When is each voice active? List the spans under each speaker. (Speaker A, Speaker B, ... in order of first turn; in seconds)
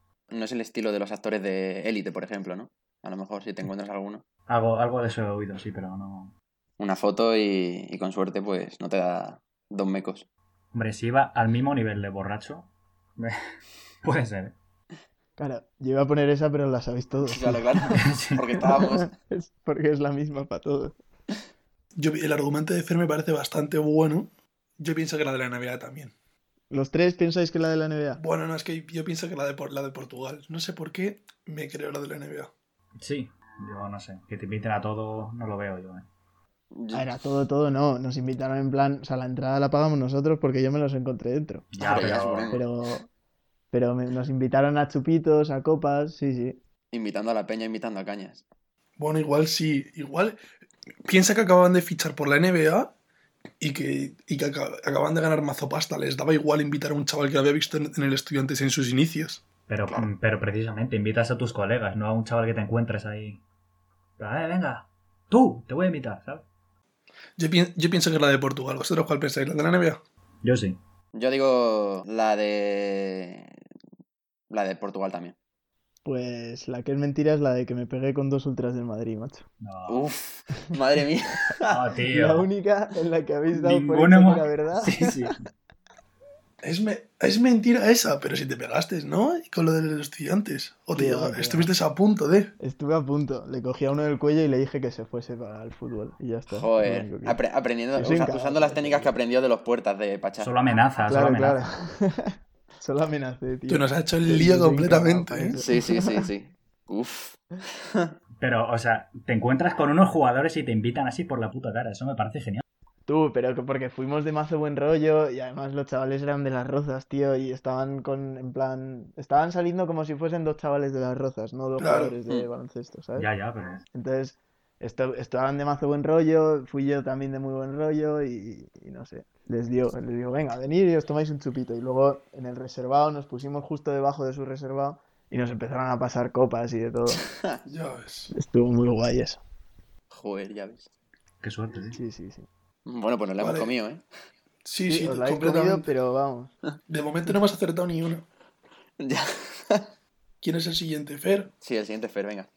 Speaker A: 0.3-4.2, 6.8-10.3, 17.2-19.1, 36.7-37.1, 41.8-42.6, 46.9-48.4, 71.1-73.6, 74.5-75.3, 79.9-81.6, 96.5-100.5, 105.6-108.2, 137.2-137.6, 140.1-140.9, 142.9-144.0, 149.0-149.9, 151.6-152.5
Speaker B: 4.5-6.3, 10.7-13.4, 14.0-14.6, 17.9-18.6, 33.0-36.1, 41.7-42.6, 59.7-63.4, 64.2-66.5, 70.4-70.8, 79.6-80.1, 81.6-82.5, 83.5-85.4, 100.4-101.6, 108.4-112.6, 123.2-123.8, 141.4-142.0
Speaker C: 15.4-17.9, 18.6-21.0, 26.7-28.2, 36.9-43.1, 43.7-46.6, 76.0-79.5, 81.7-85.3, 90.9-91.7, 92.6-97.4, 97.9-99.2, 101.1-106.3, 113.1-123.3, 123.9-137.2, 138.3-139.4, 141.9-142.5, 144.9-146.5
Speaker D: 22.0-24.3, 24.8-26.1, 28.2-32.5, 49.0-50.4, 51.0-52.9, 53.6-59.4, 67.4-70.0, 86.6-92.5, 103.7-105.6, 121.8-122.2, 137.7-138.3, 143.4-143.7, 144.7-145.9, 146.9-148.2, 150.4-151.5